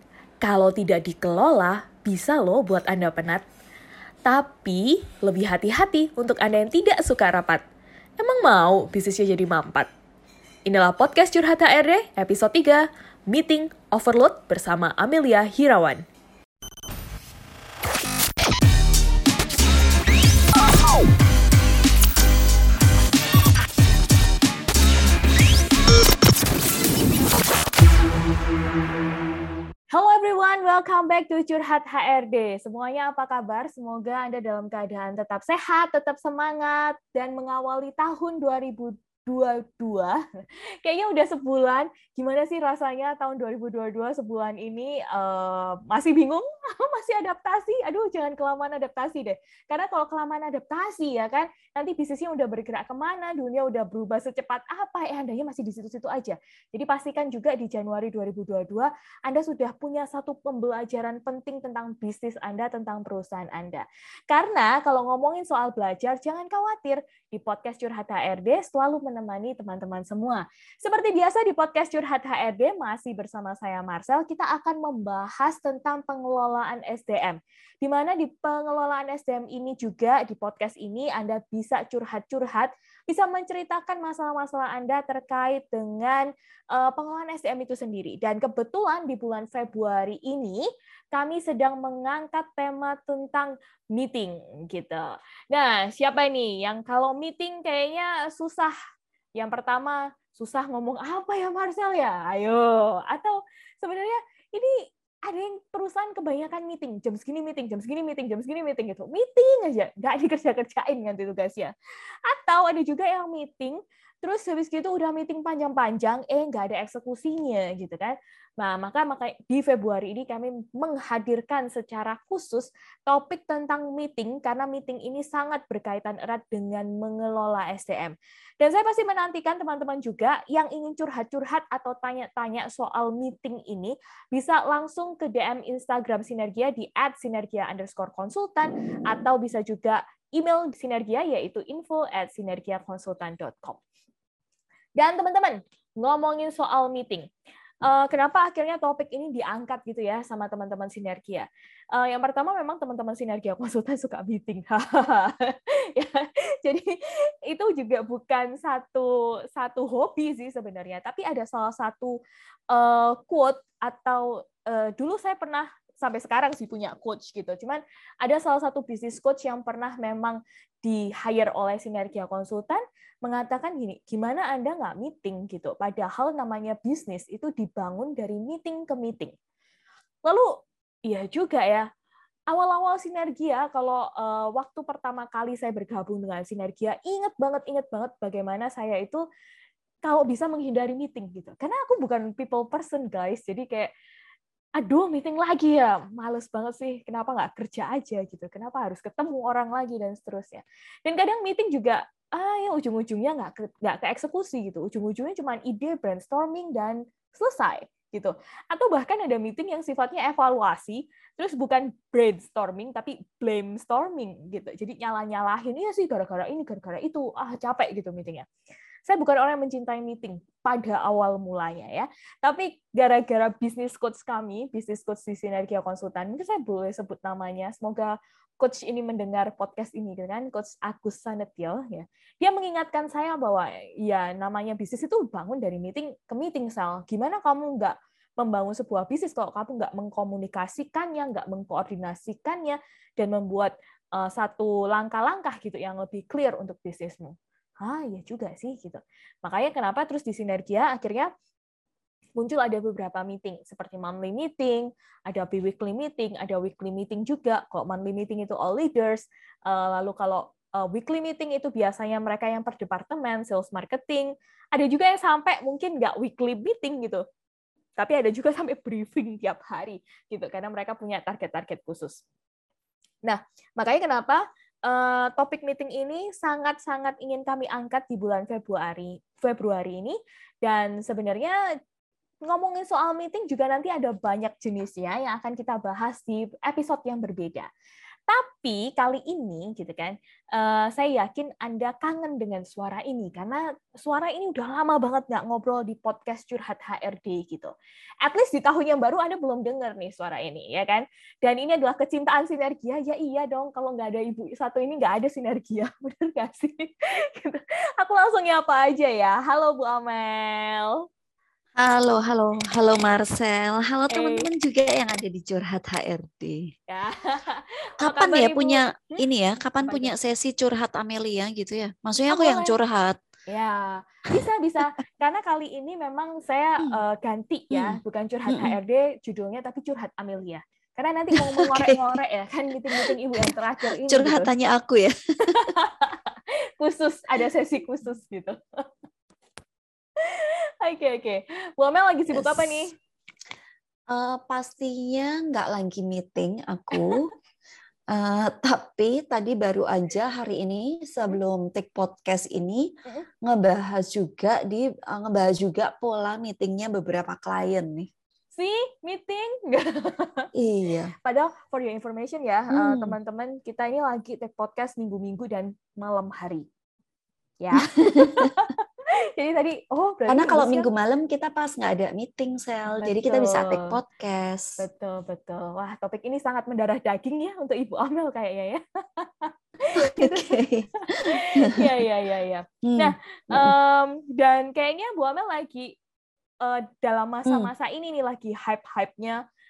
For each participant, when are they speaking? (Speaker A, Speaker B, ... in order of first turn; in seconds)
Speaker A: 0.4-3.5, 4.3-7.6, 8.2-9.9, 10.7-16.0, 29.9-98.7, 99.4-111.7, 112.3-143.8, 145.0-147.3, 147.8-162.2, 162.7-179.3, 181.1-181.9, 182.5-189.2, 190.0-193.9, 194.8-218.5, 219.1-251.3, 252.4-267.2, 268.0-272.2, 273.2-281.6, 282.5-287.7, 288.3-297.7, 298.2-311.0, 314.1-314.5, 316.9-319.2, 319.8-320.1, 322.2-322.8, 323.5-334.5, 335.4-338.6, 340.2-342.9, 358.6-360.5, 361.2-366.7, 367.6-368.8, 369.4-370.9, 373.0-374.0, 374.8-386.0, 386.6-389.4
Speaker B: 311.8-316.7, 318.0-323.2, 327.7-328.0, 328.5-328.8, 331.4-332.2, 332.9-333.5, 334.0-335.7, 342.3-342.9, 344.1-347.3, 348.1-352.9, 353.4-358.1, 360.6-361.1, 362.7-363.2, 367.9-368.5, 370.3-374.8, 380.0-382.0, 382.8-383.7